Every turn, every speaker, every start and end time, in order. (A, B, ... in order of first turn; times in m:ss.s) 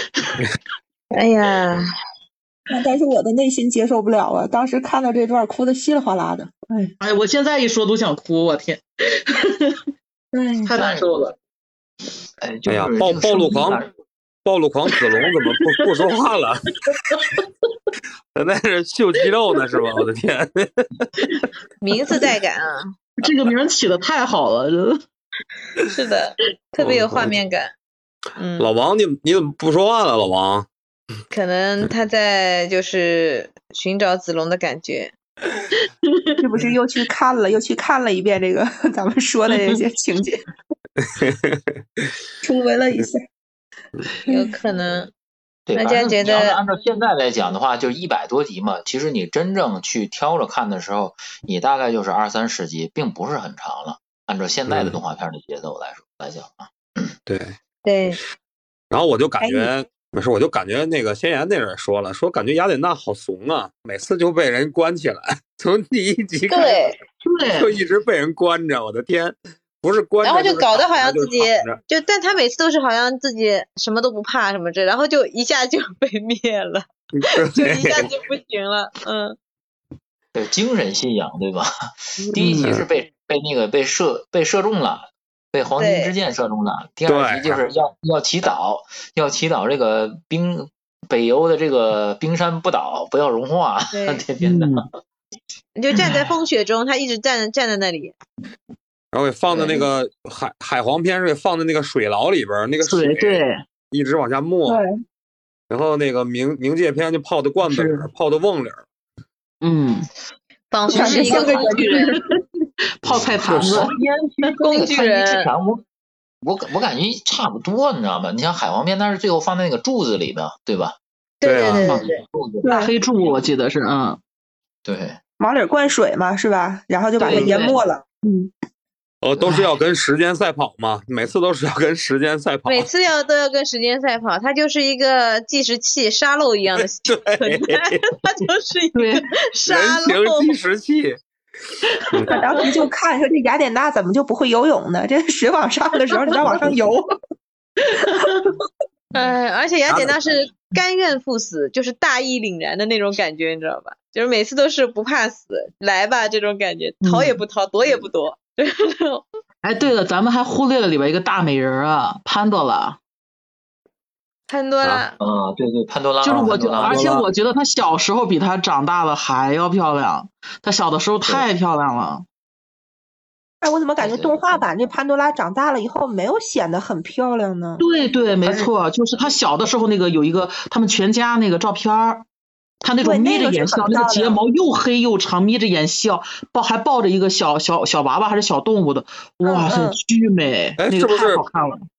0:01.1-0:01.8 A
0:02.7-0:06.9 B
0:07.0-0:09.8 C
0:10.3-0:10.7 B
0:10.6-0:11.3 C
0:10.7-0:11.2 D
0:12.4-0:13.9 D
0:12.7-0:13.8 E
0:14.4-0:16.8 E
0:16.9-0:17.4 C
0:18.3-0:21.3 E
0:21.8-0:22.9 A
0:23.2-0:25.0 C
0:25.9-0:27.7 A
0:26.8-0:27.3 E
0:28.4-0:28.7 A
0:28.6-0:30.7 E
0:31.3-0:35.1 A
0:35.8-0:36.4 C
0:36.4-0:40.4 B
0:41.2-0:41.6 E
0:42.4-0:43.2 B
0:44.3-0:45.1 A
0:45.7-0:56.7 D
0:45.8-0:46.6 A
0:54.7-0:55.0 E
0:57.3-0:57.6 E
0:57.8-0:58.2 A
0:58.9-1:06.9 E
0:59.4-0:59.7 B
1:06.5-1:07.0 A
1:07.2-1:07.7 C
1:07.5-1:11.8 E
1:10.2-1:19.4 A
1:17.1-1:18.1 E
1:20.3-1:21.7 D
1:22.2-1:34.8 D
1:22.3-1:22.7 C
1:25.8-1:26.1 A
1:27.1-1:27.6 E
1:33.9-1:34.2 A
1:34.4-1:34.9 C
1:35.8-1:38.2 A
1:39.1-1:44.8 E
1:39.5-1:39.8 D
1:42.8-1:43.6 C
1:44.6-1:44.9 B
1:45.7-1:48.8 E
1:47.6-1:48.1 C
1:49.6-1:50.1 C
1:50.7-1:52.2 A
1:50.9-1:52.0 B
1:50.9-1:52.4 C
1:53.0-1:54.5 C
1:53.0-1:53.8 E
1:53.5-1:55.8 D
1:54.6-1:55.5 A
1:56.4-2:01.0 D
2:01.4-2:02.2 A
2:01.4-2:02.0 E
2:01.7-2:02.1 C
2:02.2-2:02.7 D
2:02.6-2:04.2 C
2:02.6-2:02.9 B
2:04.8-2:05.2 D
2:05.4-2:08.5 B
2:07.2-2:07.8 C
2:09.2-2:12.9 E
2:12.7-2:20.5 A
2:17.0-2:18.0 E
2:18.9-2:19.2 C
2:19.7-2:21.2 E
2:21.9-2:22.2 C
2:22.1-2:22.4 E
2:22.3-2:27.1 B
2:27.8-2:28.5 C
2:29.1-2:39.2 A
2:29.9-2:30.3 E
2:37.0-2:37.4 C
2:39.6-2:43.0 C
2:44.5-2:45.1 A
2:45.2-2:47.3 D
2:46.2-2:52.2 C
2:46.8-2:47.1 E
2:53.6-2:57.8 B
2:54.0-2:54.4 D
2:57.8-3:02.2 C
2:58.4-2:58.7 B
3:02.8-3:11.8 C
3:03.0-3:04.4 B
3:09.4-3:10.0 B
3:10.8-3:11.4 E